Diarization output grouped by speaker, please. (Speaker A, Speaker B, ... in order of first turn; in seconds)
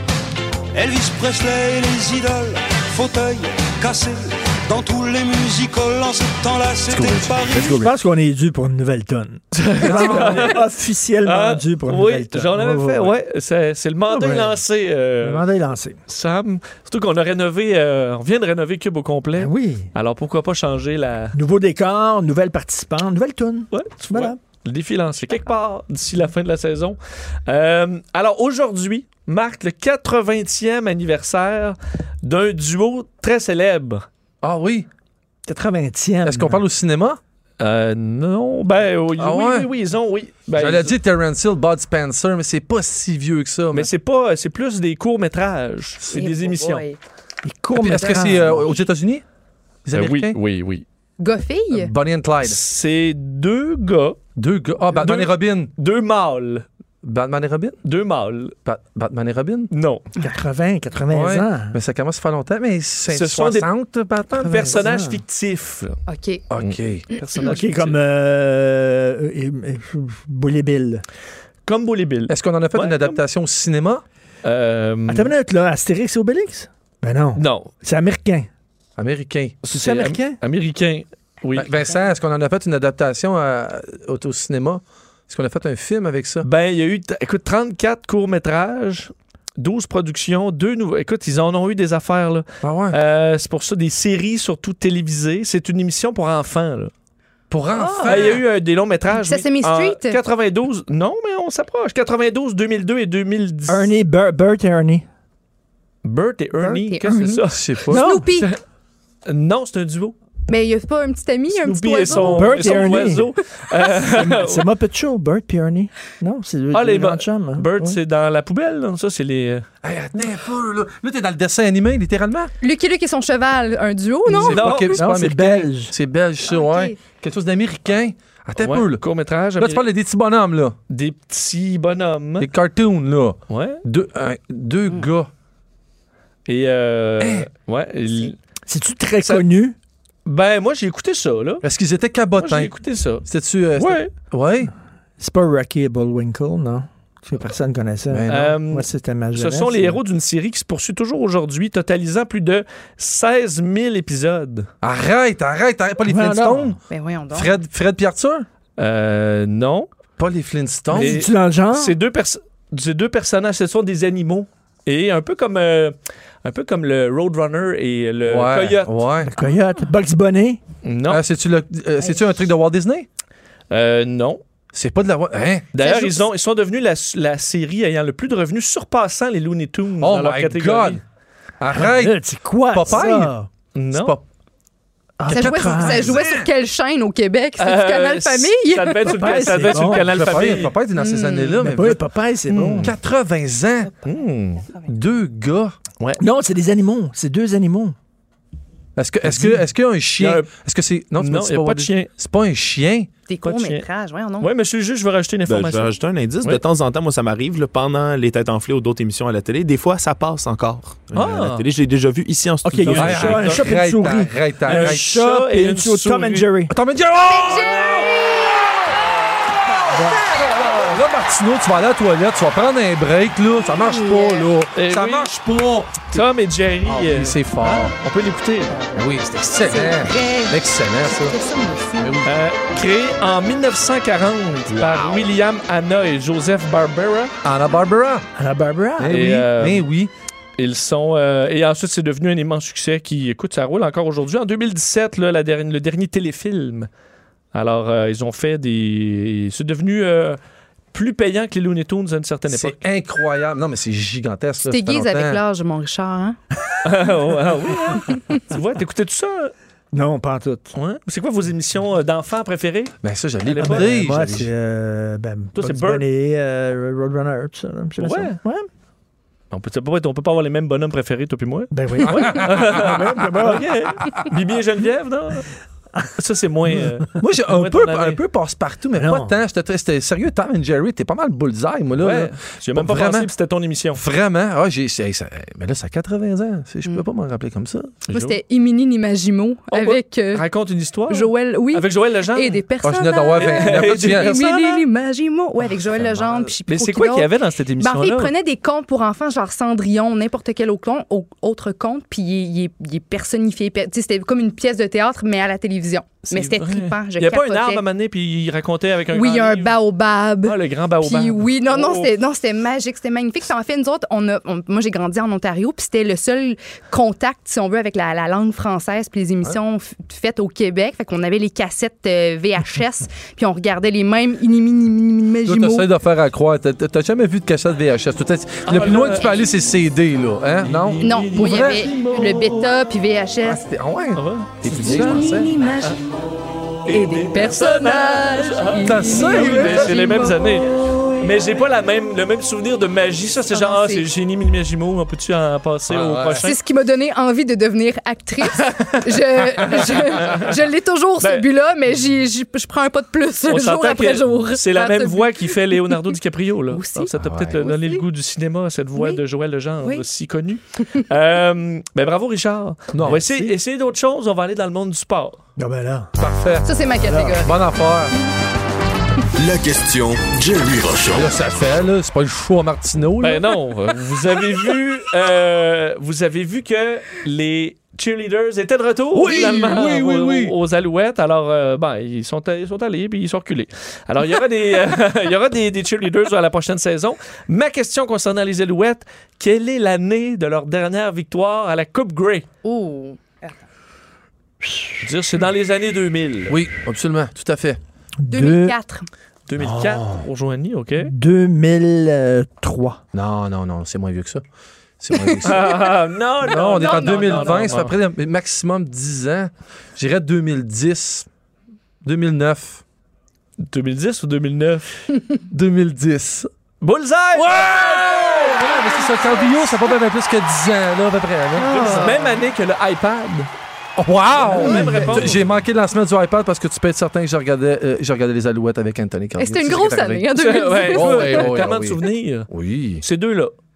Speaker A: 0.7-7.7
Speaker B: 6.9-7.9, 9.8-10.6, 34.4-34.9, 36.2-37.2, 39.2-39.7, 40.5-43.9, 47.8-49.2, 49.9-50.4, 51.7-52.6, 54.4-55.7, 57.0-57.8, 58.6-59.7, 61.1-64.8, 66.5-67.1, 72.3-74.0, 79.0-79.7, 81.6-86.5, 92.6-93.0, 97.5-98.4, 107.5-108.0, 119.8-122.5, 124.3-129.0, 129.6-130.8, 132.4-135.3, 137.2-137.5, 141.6-142.7, 143.2-144.7, 148.1-148.7, 154.8-156.8, 157.3-158.5, 160.2-161.2, 168.2-169.3, 171.1-173.1, 174.7-175.7, 180.0-181.0, 181.6-183.3, 183.9-184.2, 185.2-186.5, 189.7-192.0, 192.7-194.0, 194.8-195.8, 199.0-203.1, 212.9-215.2, 216.7-218.2, 220.3-226.2, 226.8-227.9, 228.9-231.4, 232.0-232.3, 234.7-235.3, 237.4-238.3, 239.0-240.1, 252.5-255.4, 263.0-264.5, 272.2-272.8, 277.2-283.3, 283.9-288.1, 292.8-294.4, 296.1-296.3, 325.4-331.9, 333.4-335.6, 338.7-340.2, 345.9-346.5, 357.1-357.7, 362.9-363.2, 366.2-366.7, 367.4-368.2, 371.1-373.6, 379.1-380.5, 396.5-397.8, 399.6-400.2, 403.1-404.4, 405.0-405.7, 406.4-411.3, 412.0-412.8, 415.5-416.5, 417.4-421.9, 424.0-433.0
Speaker C: 7.6-13.2, 14.1-14.6, 15.2-16.0, 19.4-19.9, 21.3-24.4, 35.5-36.6, 47.4-48.8, 60.2-61.8, 64.5-65.2, 67.4-71.0, 75.1-78.5, 79.7-80.4, 103.7-105.0, 107.9-108.3, 112.2-113.3, 114.0-117.7, 124.9-126.0, 138.7-139.8, 145.2-150.0, 156.0-156.8, 160.9-162.0, 169.2-170.6, 181.7-183.5, 185.2-186.2, 189.1-190.2, 191.6-192.9, 196.2-197.9, 199.2-199.7, 212.7-216.8, 219.9-220.2, 238.4-239.1, 259.9-260.7, 263.6-268.7, 271.7-273.8, 279.0-279.4, 363.0-363.6, 365.6-366.1, 367.0-367.4, 394.7-394.9, 398.2-398.8, 401.0-403.0, 421.8-422.2
Speaker D: 9.6-10.7, 11.2-15.5, 16.1-21.4, 23.7-34.1, 37.6-41.0, 43.7-46.9, 49.9-50.9, 52.4-54.2, 54.9-56.6, 57.8-58.5, 59.7-60.0, 63.1-63.7, 64.3-66.0, 66.6-68.0, 71.7-73.2, 74.4-75.3, 77.4-77.7, 79.6-81.7, 86.4-96.9, 98.0-103.9, 106.0-108.6, 109.3-110.2, 111.5-114.7, 116.7-119.7, 124.4-125.0, 128.6-129.8, 130.9-132.5, 133.5-133.8, 136.5-138.4, 140.3-141.6, 142.3-143.2, 143.8-144.1, 148.3-154.7, 158.8-159.9, 160.9-169.1, 170.8-171.2, 173.7-174.4, 175.7-181.0, 183.7-184.2, 187.6-190.8, 192.5-192.9, 194.0-194.7, 200.2-200.5, 201.2-202.1, 203.4-203.9, 204.4-206.6, 211.1-211.7, 212.8-213.7, 214.7-216.5, 224.8-225.3, 226.1-228.8, 232.2-237.3, 239.1-239.9, 240.6-246.9, 247.5-250.4, 250.9-252.8, 256.8-259.5, 260.7-263.9, 265.6-266.1, 268.0-268.4, 269.5-275.5, 276.1-278.2, 282.0-284.0, 288.1-288.4, 289.7-292.6, 293.4-294.9, 296.4-298.3, 306.3-309.8, 310.4-312.2, 328.7-329.4, 330.6-332.7, 334.1-334.6, 336.9-346.6, 348.5-350.6, 351.2-351.5, 353.5-365.4, 373.2-392.5, 395.0-396.6, 399.5-401.1, 405.4-407.9, 413.6-414.9, 416.8-417.8, 421.6-423.5, 424.3-425.6, 430.4-432.5, 433.0-433.5
Speaker E: 46.1-47.0, 51.2-51.9, 66.1-66.4, 67.1-67.5, 97.7-98.4, 99.1-100.2, 106.7-108.5, 110.5-113.2, 122.6-124.8, 126.5-127.0, 156.9-157.5, 175.8-176.2, 185.3-189.4, 190.9-191.7, 203.3-204.5, 217.3-218.6, 223.6-224.5, 229.6-232.2, 254.7-256.4, 258.1-258.4, 288.1-290.4, 291.1-307.8, 309.1-325.9, 331.0-333.6, 334.7-336.0, 336.9-340.5, 343.5-344.1, 346.4-356.2, 356.7-358.0, 366.6-367.5, 392.6-393.6, 398.3-399.1, 406.6-407.8, 418.6-419.8, 421.6-422.4, 424.6-425.1, 429.4-431.5
Speaker F: 205.5-213.6
Speaker G: 369.4-371.4